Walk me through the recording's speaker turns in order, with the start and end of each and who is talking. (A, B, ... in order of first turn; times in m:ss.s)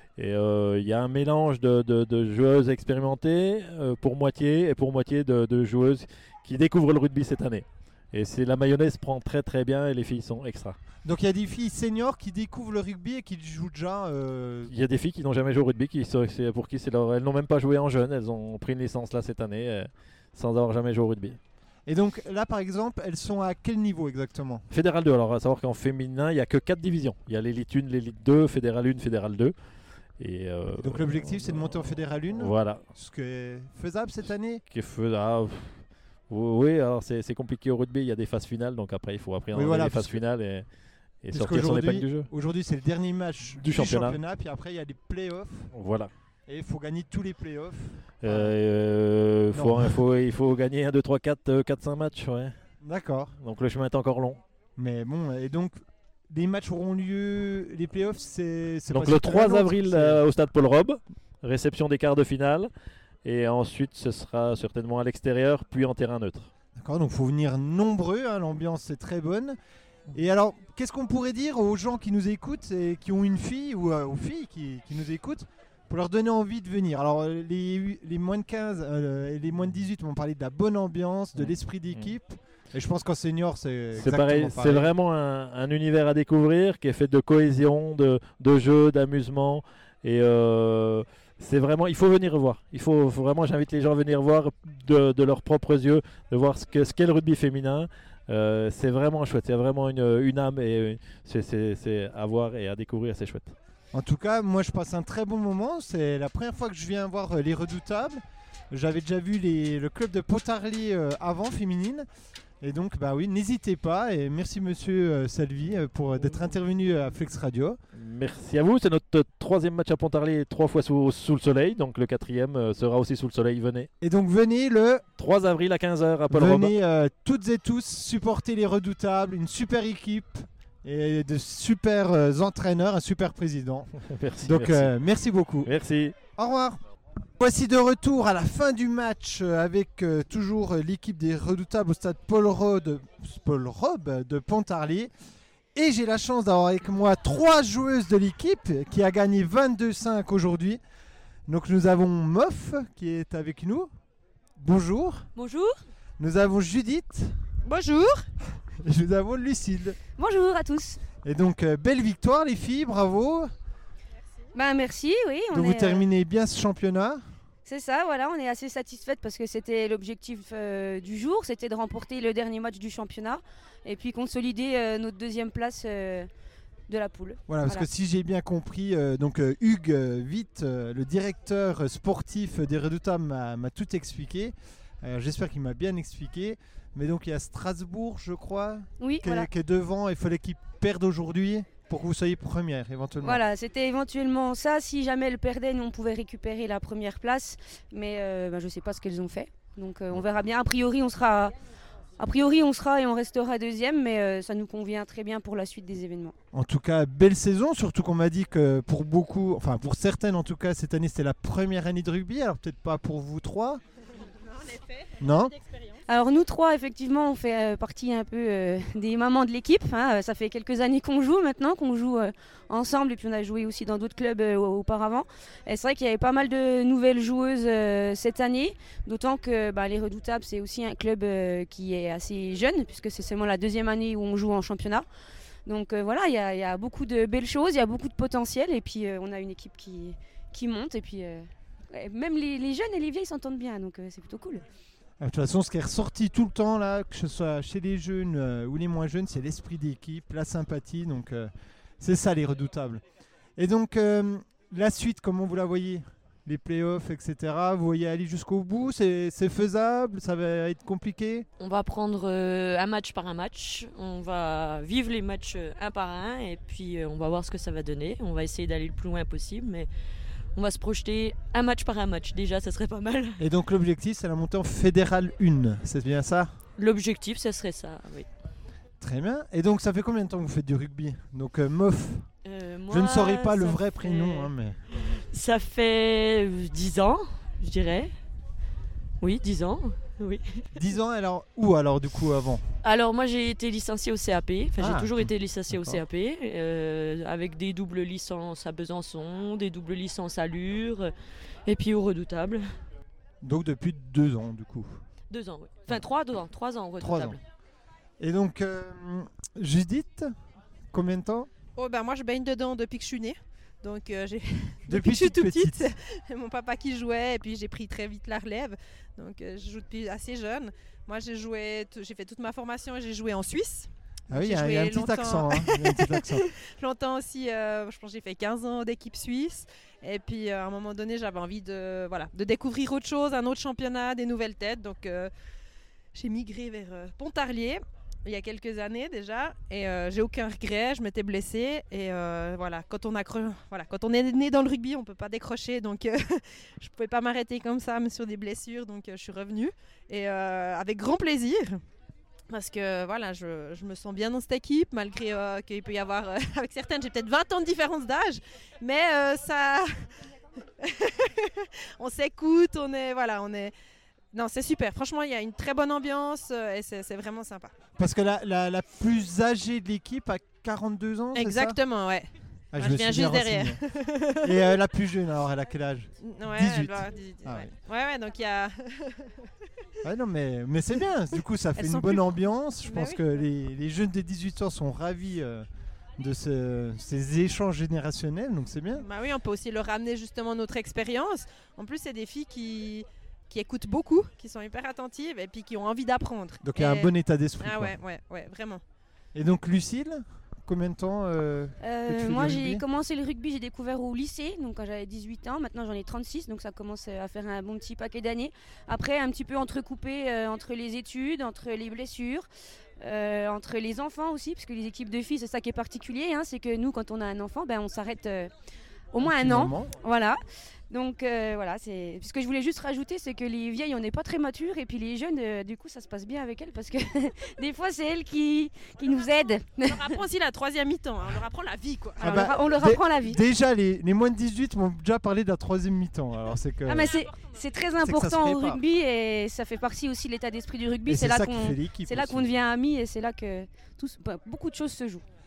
0:00.2-0:10.8 A
0:11.0-0:14.7 B
0:14.7-0:21.4 A
0:21.9-0:24.6 B
0:24.7-0:29.5 A
0:30.2-0:32.8 A
0:30.8-0:34.6 B
0:34.7-0:40.6 A
0:39.5-0:40.2 B
0:41.2-0:42.3 A
0:41.3-0:45.7 B
0:43.6-0:44.2 A
0:45.7-0:46.1 A
0:46.5-0:48.6 B
0:48.2-0:52.5 A
0:49.5-0:50.0 B
0:52.8-0:53.3 B
0:53.4-0:54.4 A
0:54.8-0:55.8 B
0:56.3-1:00.2 B
0:58.9-1:02.7 A
1:03.2-1:06.5 A
1:06.8-1:09.6 B
1:10.1-1:24.9 B
1:21.4-1:22.1 A
1:24.0-1:43.5 A
1:43.9-1:52.1 B
1:52.6-1:57.8 B
1:58.0-2:03.9 A
2:04.0-2:05.0 B
2:05.2-2:06.7 A
2:06.3-2:13.9 B
2:14.0-2:14.9 A
2:14.4-2:15.7 B
2:15.6-2:16.1 A
2:16.4-2:16.8 B
2:17.4-2:25.1 B
2:25.7-2:30.8 B
2:31.5-2:33.9 B
2:34.6-2:35.3 B
2:35.3-2:35.7 C
2:36.2-2:37.4 B
2:37.6-2:38.2 D
2:38.8-2:40.0 B
2:40.2-2:41.0 E
2:41.2-2:43.5 B
2:44.5-2:46.0 E
2:45.5-2:47.2 B
2:47.6-2:56.3 E
2:56.9-2:57.9 E
2:57.5-3:13.4 B
3:09.0-3:09.5 E
3:13.2-3:21.5 E
3:22.2-3:26.3 E
3:26.5-3:33.8 B
3:34.3-3:36.0 D
3:35.2-3:35.5 B
3:36.1-3:55.1 E
3:55.6-4:04.6 E
4:05.2-4:13.0 B
4:13.6-4:21.4 B
4:21.6-4:29.9 C
4:30.5-4:33.4 C
4:33.4-4:36.5 B
4:36.8-4:38.3 C
4:39.0-4:42.3 B
4:42.4-4:48.1 C
4:42.9-4:44.8 B
4:49.2-4:50.6 C
4:50.7-4:52.7 B
4:52.8-5:01.1 C
4:54.8-4:56.0 B
5:01.6-5:02.6 C
5:03.4-5:05.0 B
5:05.3-5:07.4 C
5:07.0-5:07.4 B
5:08.2-5:10.3 B
5:10.9-5:11.5 B
5:11.8-5:35.3 D
5:14.9-5:15.9 B
5:24.3-5:26.5 B
5:36.1-5:51.8 D
5:52.5-6:00.0 D
6:00.8-6:03.7 D
6:04.3-6:07.7 D
6:08.0-6:11.8 B
6:11.3-6:14.6 D
6:12.7-6:13.8 B
6:14.4-6:17.7 B
6:16.2-6:19.4 D
6:20.0-6:29.1 B
6:21.8-6:22.2 D
6:22.8-6:23.2 D
6:28.9-6:38.8 D
6:36.6-6:38.0 B
6:39.3-6:42.8 B
6:41.8-6:52.5 E
6:53.0-6:58.5 E
6:59.1-7:10.2 E
6:59.2-6:59.9 B
7:09.8-7:12.2 D
7:12.2-7:13.4 E
7:12.2-7:17.2 B
7:16.8-7:25.2 E
7:17.9-7:18.8 B
7:21.1-7:22.5 B